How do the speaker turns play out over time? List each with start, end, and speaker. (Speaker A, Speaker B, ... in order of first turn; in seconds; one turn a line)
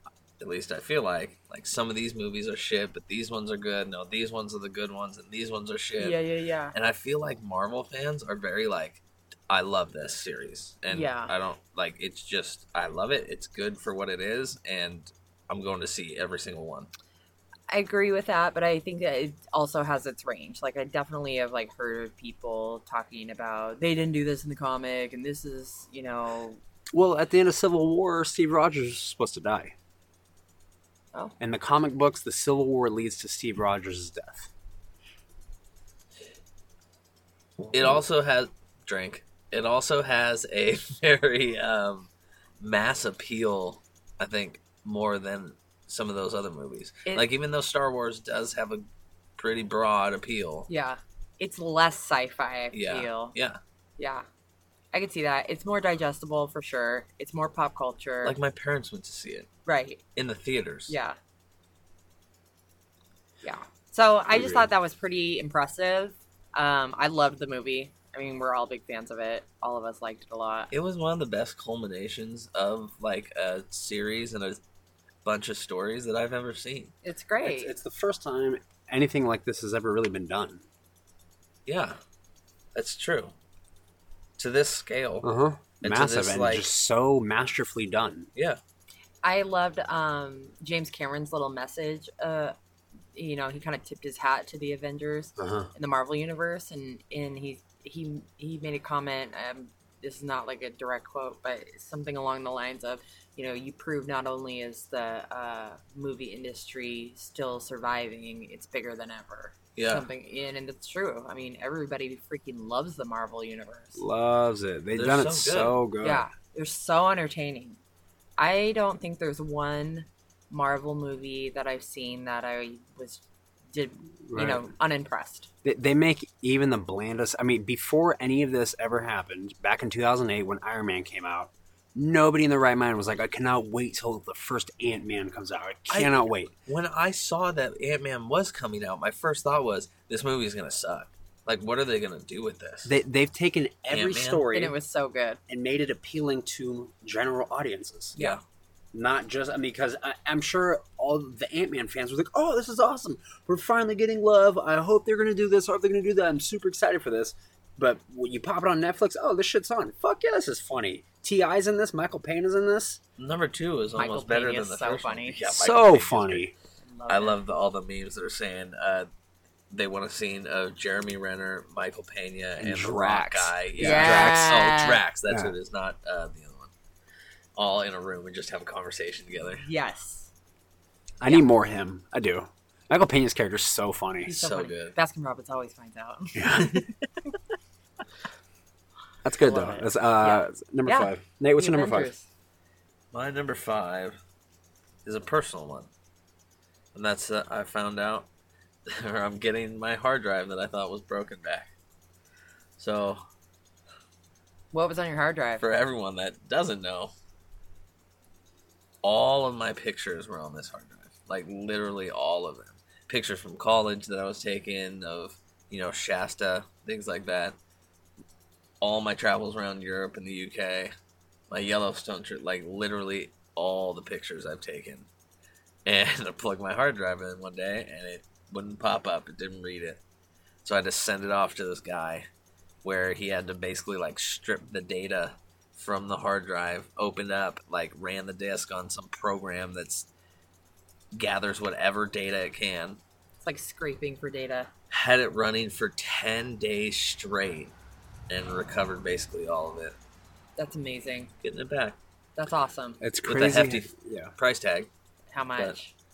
Speaker A: 0.4-6.2
Speaker B: 6.0-6.8
Speaker A: 6.7-16.9
Speaker B: 10.9-11.3
Speaker B: 17.7-26.6
Speaker C: 26.9-29.7
Speaker C: 31.4-34.5
Speaker A: 37.7-42.1
Speaker A: 42.6-50.7
Speaker B: 50.7-53.4
Speaker A: 52.7-53.6
Speaker B: 54.0-54.2
Speaker B: 54.9-58.4
Speaker A: 58.2-59.5
Speaker B: 59.7-60.0
Speaker A: 60.2-60.9
Speaker B: 60.9-61.2
Speaker B: 63.4-70.7
Speaker C: 64.3-64.7
Speaker A: 70.7-74.6
Speaker A: 75.2-76.9
Speaker B: 77.0-77.7
Speaker C: 77.4-80.6
Speaker A: 81.7-82.0
Speaker A: 82.8-83.3
Speaker A: 84.4-85.3
Speaker C: 85.2-88.3
Speaker A: 85.8-86.7
Speaker A: 88.3-88.6
Speaker B: 89.2-92.6
Speaker B: 93.1-114.0
Speaker C: 95.4-95.7
Speaker A: 109.8-110.1
Speaker C: 114.0-116.3
Speaker A: 115.0-115.8
Speaker B: 116.0-117.8
Speaker B: 118.4-125.5
Speaker C: 124.3-124.7
Speaker C: 125.6-136.5
Speaker A: 135.9-142.9
Speaker C: 142.8-144.8
Speaker A: 143.9-144.5
Speaker B: 144.5-145.4
Speaker C: 145.5-148.2
Speaker C: 148.9-163.0
Speaker A: 163.2-166.5
Speaker B: 164.0-165.4
Speaker C: 165.4-166.5
Speaker B: 166.8-167.4
Speaker A: 167.1-169.1
Speaker A: 169.7-176.7
Speaker C: 172.6-174.6
Speaker B: 173.8-175.0
Speaker C: 175.3-175.5
Speaker A: 177.6-179.7
Speaker B: 179.6-180.3
Speaker C: 181.2-184.3
Speaker B: 184.2-187.3
Speaker A: 184.3-185.0
Speaker C: 186.3-186.8
Speaker C: 189.2-192.1
Speaker B: 189.4-192.3
Speaker A: 193.1-194.2
Speaker A: 195.1-195.9
Speaker A: 196.9-198.3
Speaker A: 198.9-201.7
Speaker A: 202.8-203.2
Speaker B: 204.7-205.6
Speaker A: 205.6-207.1
Speaker A: 209.0-217.6
Speaker A: 218.8-220.9
Speaker A: 221.5-225.1
Speaker A: 225.8-230.0
Speaker A: 230.6-232.3
Speaker A: 232.8-240.1
Speaker A: 241.1-243.0
Speaker B: 243.4-244.7
Speaker A: 244.9-247.7
Speaker A: 248.3-250.0
Speaker B: 250.6-251.3
Speaker A: 251.4-252.0
Speaker B: 252.4-253.0
Speaker C: 253.0-254.3
Speaker A: 253.2-254.9
Speaker B: 255.3-255.9